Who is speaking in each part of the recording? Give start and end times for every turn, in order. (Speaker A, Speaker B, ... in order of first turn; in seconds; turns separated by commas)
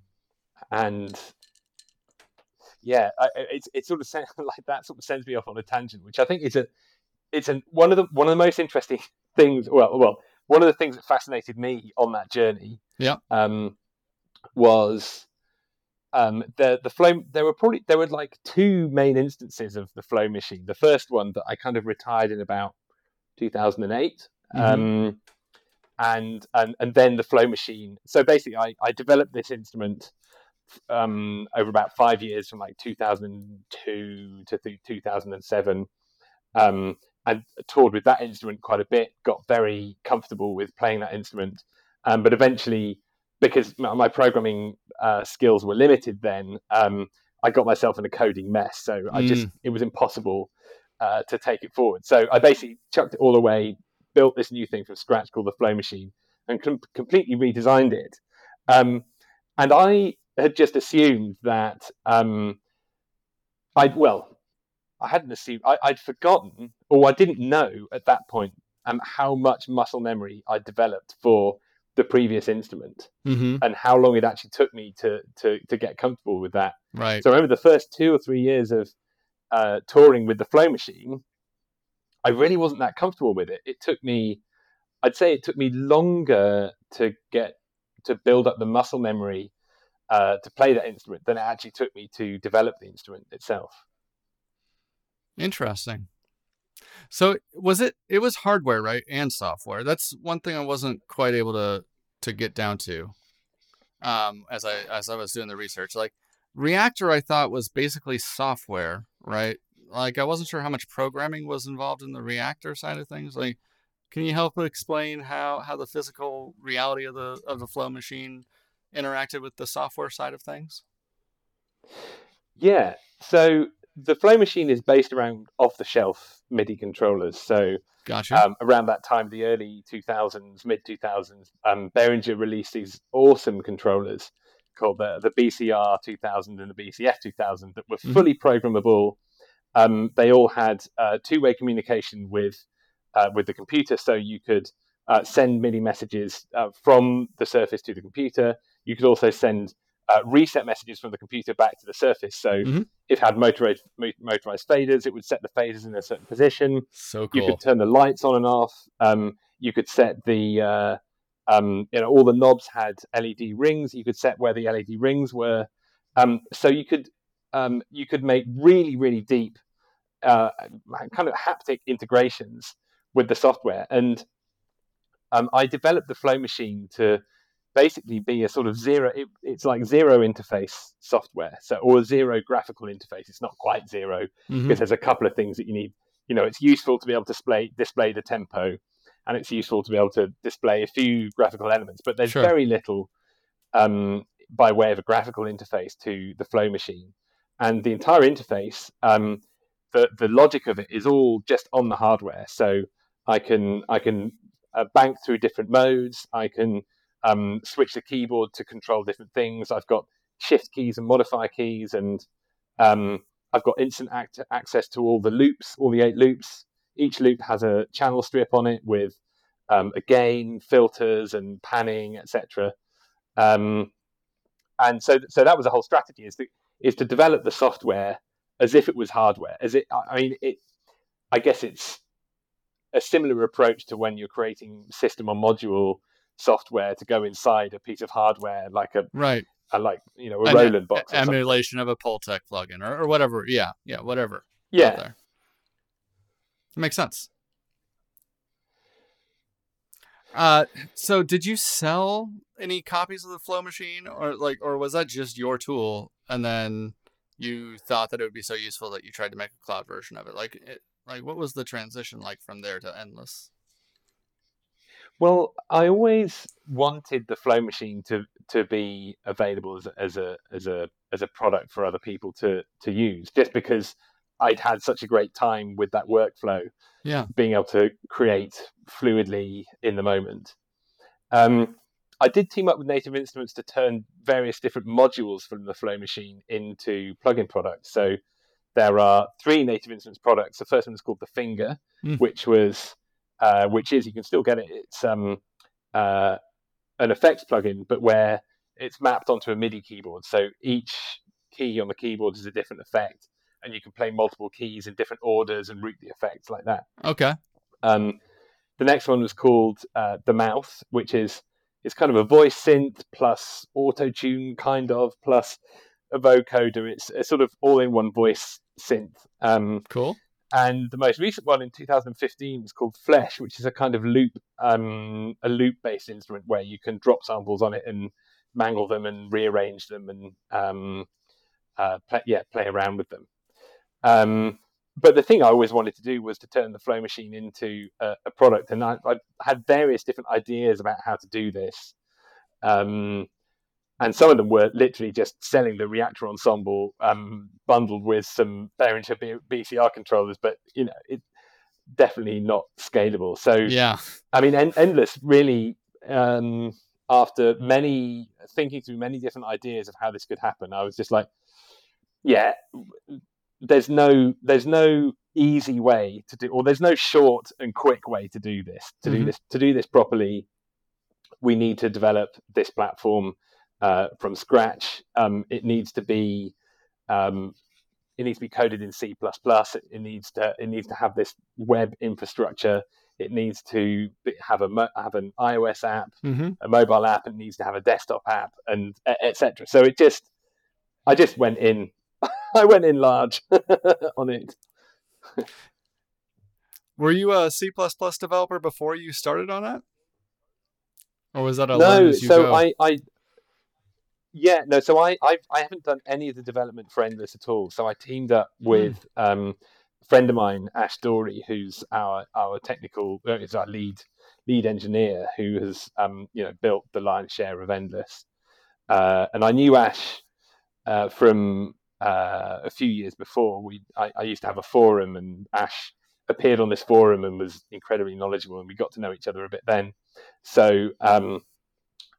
Speaker A: 0.7-1.3, Speaker A: 2.8-6.7, Speaker A: 7.3-13.8, Speaker A: 14.5-15.3, Speaker A: 16.1-22.7, Speaker A: 23.4-25.2, Speaker B: 24.5-24.9, Speaker A: 26.0-30.1, Speaker A: 30.9-35.9, Speaker A: 36.5-50.5, Speaker B: 49.1-49.5, Speaker A: 51.0-59.0, Speaker A: 59.6-62.6, Speaker A: 63.8-64.3, Speaker A: 65.0-78.9, Speaker B: 73.2-73.6, Speaker B: 76.9-77.2, Speaker A: 79.5-81.2, Speaker A: 82.2-84.4, Speaker A: 85.0-89.5, Speaker A: 90.1-93.8, Speaker B: 95.4-96.1, Speaker B: 97.1-103.1, Speaker B: 104.0-113.6, Speaker B: 114.1-120.8, Speaker A: 122.6-127.8, Speaker B: 128.1-128.4, Speaker A: 128.3-139.2, Speaker A: 139.7-142.6, Speaker A: 143.1-169.6, Speaker B: 156.9-157.6, Speaker A: 170.2-174.2, Speaker A: 175.3-177.2, Speaker A: 177.7-193.1, Speaker B: 184.5-184.8, Speaker B: 192.2-192.5, Speaker A: 193.7-212.2, Speaker A: 212.8-219.2, Speaker A: 219.7-222.7, Speaker A: 223.4-223.9, Speaker A: 224.8-230.6, Speaker A: 231.3-232.0, Speaker A: 232.9-241.4, Speaker B: 239.1-239.5, Speaker B: 240.4-245.2, Speaker A: 244.7-245.0, Speaker B: 246.8-247.3, Speaker B: 250.3-263.5, Speaker A: 265.2-276.7, Speaker B: 277.0-277.3, Speaker A: 277.3-280.5, Speaker A: 281.3-288.2, Speaker A: 288.7-295.4, Speaker A: 295.9-296.4, Speaker A: 297.0-306.9, Speaker B: 307.0-307.4, Speaker A: 307.8-308.2, Speaker A: 308.8-315.6, Speaker A: 316.1-319.9, Speaker B: 319.9-320.2, Speaker A: 320.5-331.1, Speaker A: 331.8-333.3, Speaker A: 334.0-341.9, Speaker A: 342.6-343.3, Speaker A: 344.0-351.2, Speaker A: 351.9-353.7, Speaker B: 353.6-354.2, Speaker A: 354.3-361.3, Speaker A: 362.2-370.5, Speaker A: 371.4-376.5, Speaker A: 377.1-377.6, Speaker A: 378.2-390.3, Speaker A: 391.1-394.6, Speaker B: 397.0-399.8, Speaker B: 401.3-402.6, Speaker A: 401.7-403.0, Speaker A: 404.3-418.2, Speaker A: 418.9-420.2, Speaker A: 420.9-431.4